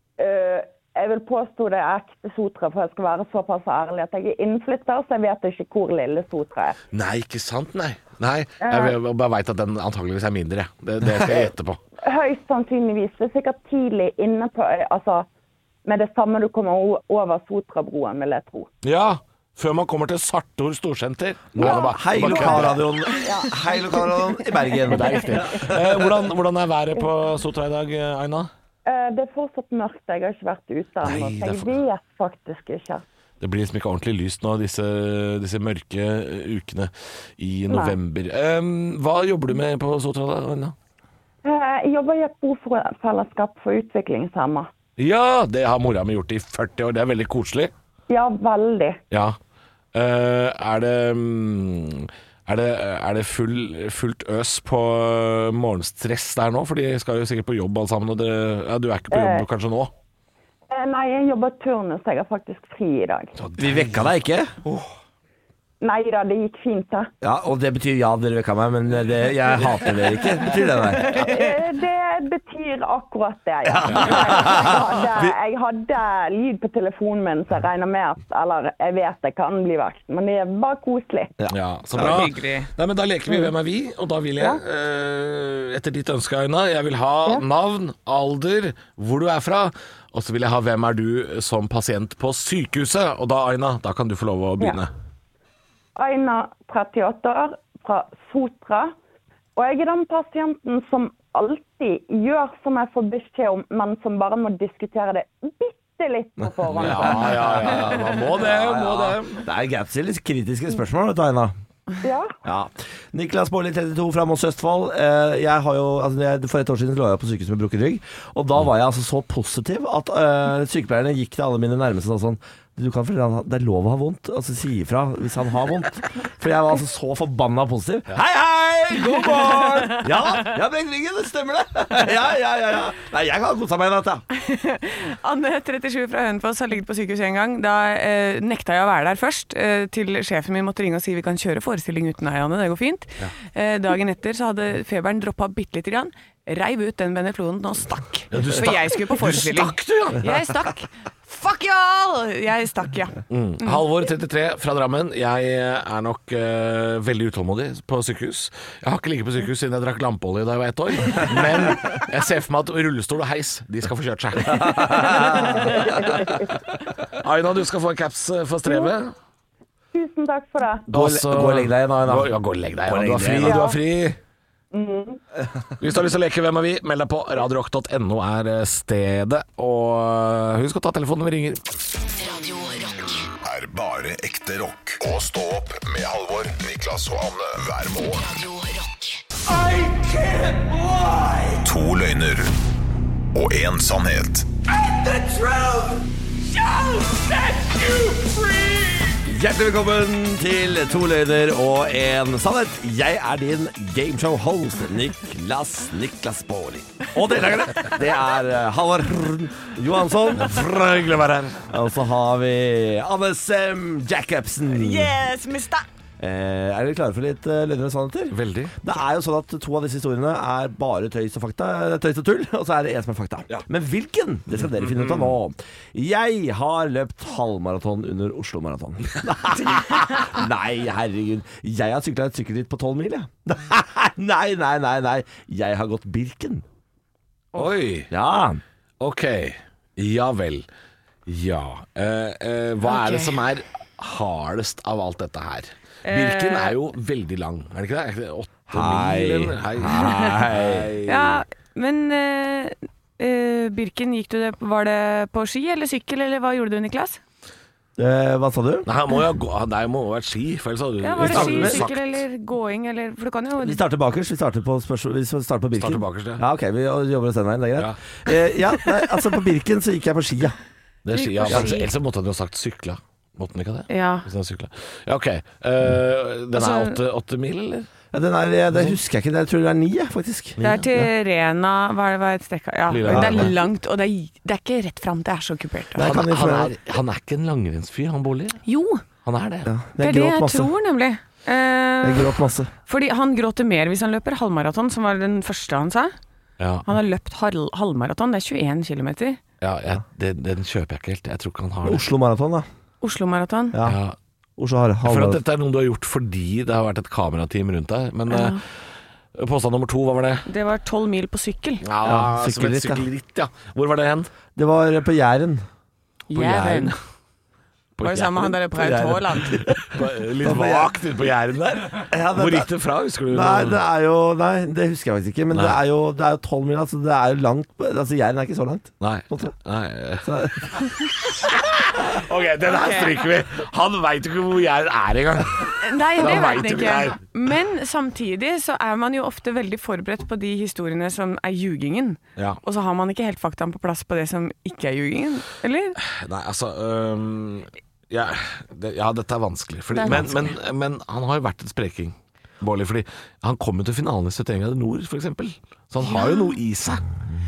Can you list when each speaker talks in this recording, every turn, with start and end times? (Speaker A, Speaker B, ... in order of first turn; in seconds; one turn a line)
Speaker A: 0.2-6.8
Speaker B: 6.9-11.8
Speaker A: 8.6-9.0
Speaker A: 12.0-15.3
Speaker A: 15.8-18.7
Speaker B: 18.8-22.8
Speaker C: 21.6-25.9
Speaker A: 21.6-22.6
Speaker A: 23.2-24.6
Speaker B: 24.9-28.5
Speaker A: 28.9-33.0
Speaker B: 31.0-31.8
Speaker B: 33.4-40.7
Speaker A: 37.7-38.0
Speaker A: 41.4-44.7
Speaker B: 45.0-47.7
Speaker A: 48.1-49.0
Speaker B: 49.1-49.4
Speaker B: 49.9-59.9
Speaker A: 59.1-59.5
Speaker A: 60.7-63.3
Speaker B: 63.4-64.1
Speaker C: 63.6-64.5
Speaker A: 65.8-67.1
Speaker C: 67.2-71.3
Speaker A: 71.1-81.3
Speaker C: 73.6-75.3
Speaker B: 73.8-74.2
Speaker C: 81.4-82.3
Speaker B: 81.5-94.9
Speaker D: 82.0-82.7
Speaker A: 96.0-98.9
Speaker A: 99.5-108.1
Speaker B: 106.7-109.4
Speaker C: 106.8-111.5
Speaker A: 112.0-112.4
Speaker C: 112.4-134.2
Speaker D: 134.3-153.8
Speaker B: 148.3-150.3
Speaker B: 153.3-166.4
Speaker C: 164.4-165.8
Speaker A: 165.8-166.4
Speaker B: 167.2-169.1
Speaker A: 168.6-168.9
Speaker A: 169.9-170.9
Speaker C: 170.9-172.3
Speaker B: 170.9-174.2
Speaker C: 172.8-173.6
Speaker A: 173.4-173.8
Speaker A: 174.7-175.2
Speaker B: 175.8-181.6
Speaker E: 182.0-183.3
Speaker F: 183.4-188.3
Speaker E: 188.1-189.2
Speaker F: 191.6-192.5
Speaker F: 193.3-194.5
Speaker C: 199.2-210.6
Speaker B: 210.3-211.6
Speaker C: 211.7-215.1
Speaker D: 214.7-215.8
Speaker C: 216.2-236.6
Speaker B: 218.3-218.8
Speaker B: 224.8-225.4
Speaker B: 237.6-238.1
Speaker C: 238.1-238.6
Speaker B: 239.0-240.7
Speaker B: 241.3-251.4
Speaker D: 242.8-243.4
Speaker D: 246.0-246.8
Speaker C: 248.7-250.9
Speaker D: 251.1-257.2
Speaker C: 258.0-258.9
Speaker B: 258.9-262.2
Speaker D: 261.0-263.8
Speaker C: 261.2-261.8
Speaker C: 263.6-270.6
Speaker B: 265.7-266.4
Speaker B: 271.0-277.9
Speaker D: 271.1-271.9
Speaker C: 271.5-271.7
Speaker D: 273.9-274.2
Speaker D: 276.5-277.0
Speaker C: 278.1-281.1
Speaker B: 278.7-279.0
Speaker B: 280.6-280.9
Speaker D: 280.6-286.2
Speaker B: 282.9-283.6
Speaker C: 283.1-283.5
Speaker C: 285.9-286.7
Speaker B: 286.0-288.6
Speaker D: 288.6-289.0
Speaker B: 289.2-289.7
Speaker C: 289.6-290.7
Speaker D: 290.0-292.3
Speaker C: 292.0-292.7
Speaker D: 292.9-296.1
Speaker B: 296.6-296.9
Speaker D: 296.9-299.4
Speaker B: 299.6-302.0
Speaker C: 301.8-302.6
Speaker D: 303.0-303.7
Speaker C: 303.7-304.0
Speaker B: 303.8-304.1
Speaker C: 304.6-305.4
Speaker B: 305.0-308.8
Speaker D: 308.3-308.6
Speaker B: 309.3-310.5
Speaker D: 310.5-311.8
Speaker B: 311.8-314.3
Speaker C: 312.0-313.1
Speaker C: 314.6-315.6
Speaker D: 316.3-316.9
Speaker B: 316.3-316.9
Speaker B: 318.0-318.6
Speaker D: 318.0-319.7
Speaker C: 318.7-320.9
Speaker B: 319.8-323.8
Speaker C: 322.1-322.7
Speaker C: 323.3-329.5
Speaker B: 329.0-330.7
Speaker C: 330.2-330.9
Speaker B: 331.5-337.2
Speaker D: 332.6-333.1
Speaker D: 335.8-346.0
Speaker B: 346.0-357.1
Speaker D: 349.9-350.5
Speaker D: 356.0-356.6